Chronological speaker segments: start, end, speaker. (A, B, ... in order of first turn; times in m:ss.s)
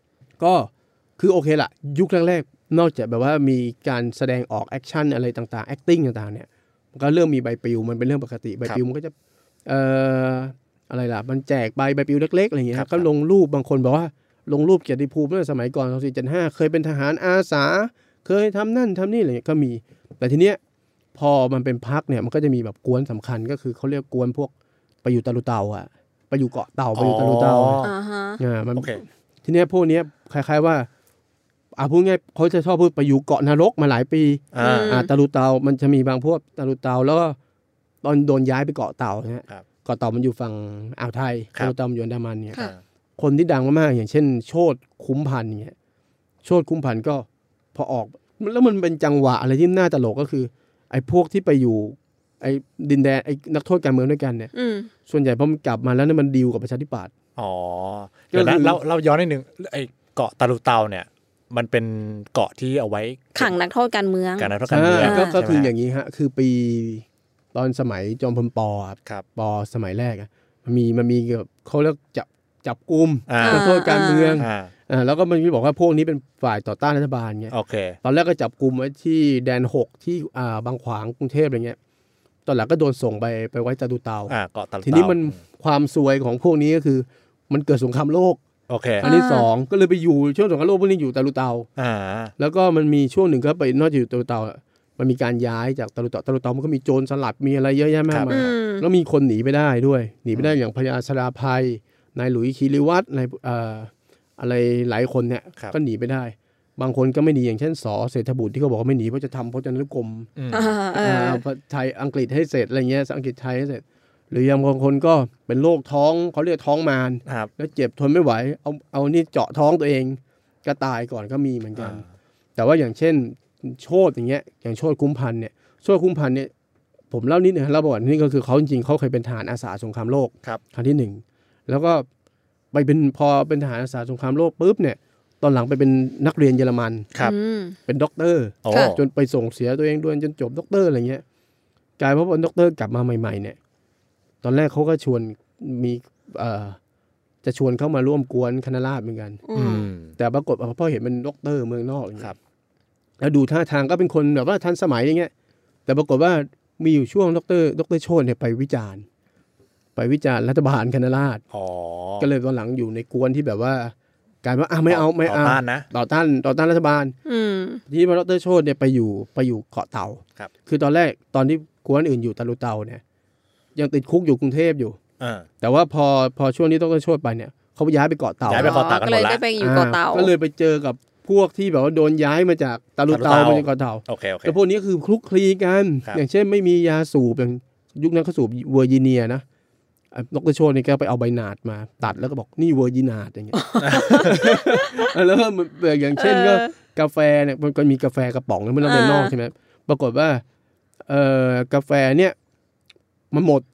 0:00.4-0:09.1 A
0:09.7-0:20.6 A
0:12.7-0:13.1 B
0:21.2-0:24.5 A
0:25.0-0:27.9 A
0:27.0-0:27.9 B
0:27.8-0:28.4 C
0:28.4-0:30.9 A
0:28.8-0:29.0 B
0:31.8-0:37.4 A
0:34.5-0:35.0 B
0:34.6-0:35.1 C
0:38.0-0:42.6 A
0:43.2-0:45.8 A
0:46.4-0:54.5 A
0:54.5-0:54.9 C
0:55.1-0:57.1 A
0:57.4-1:03.5 B
0:58.3-0:58.8 A
1:03.4-1:05.4 C
1:04.4-1:05.7 B
1:04.7-1:21.8 A
1:13.3-1:13.6 B
1:13.4-1:14.4 C
1:14.4-1:14.7 B
1:17.5-1:18.0 B
1:22.5-1:28.4 A
1:24.3-1:25.4 B
1:28.7-1:29.0 B
1:29.0-1:31.7 A
1:29.0-1:29.5 C
1:31.8-1:32.3 B
1:32.4-1:50.3 A
1:38.1-1:38.5 B
1:38.3-1:38.8 C
1:50.4-1:50.7 B
1:50.5-1:51.4 C
1:51.0-2:02.0 A
1:57.3-1:57.5 B
2:01.8-2:02.0 B
2:02.6-2:06.5 A
2:07.1-2:12.1 A
2:12.7-2:17.1 A
2:17.2-2:17.8 C
2:17.9-2:21.2 A
2:18.6-2:19.0 B
2:18.7-2:19.0 C
2:22.0-2:23.6 A
2:24.4-2:26.8 A
2:27.4-2:29.4 A
2:29.5-2:29.9 C
2:29.5-2:30.1 B
2:30.2-2:32.3 A
2:33.2-2:35.3 A
2:35.9-2:39.0 A
2:40.0-2:41.4 A
2:41.5-2:42.3 B
2:42.2-2:47.2 A
2:44.9-2:45.9 B
2:47.3-2:47.8 C
2:47.9-2:53.0 A
2:53.8-2:55.0 A
2:55.2-2:55.5 B
2:55.6-2:58.8 A
2:58.5-2:59.4 B
2:58.6-3:00.3 C
2:59.6-3:09.4 A
3:03.1-3:04.6 B
3:10.1-3:20.4 A
3:13.6-3:14.8 C
3:13.8-3:14.5 B
3:16.2-3:16.7 C
3:18.8-3:19.3 C
3:21.1-3:22.4 A
3:23.3-3:23.6 A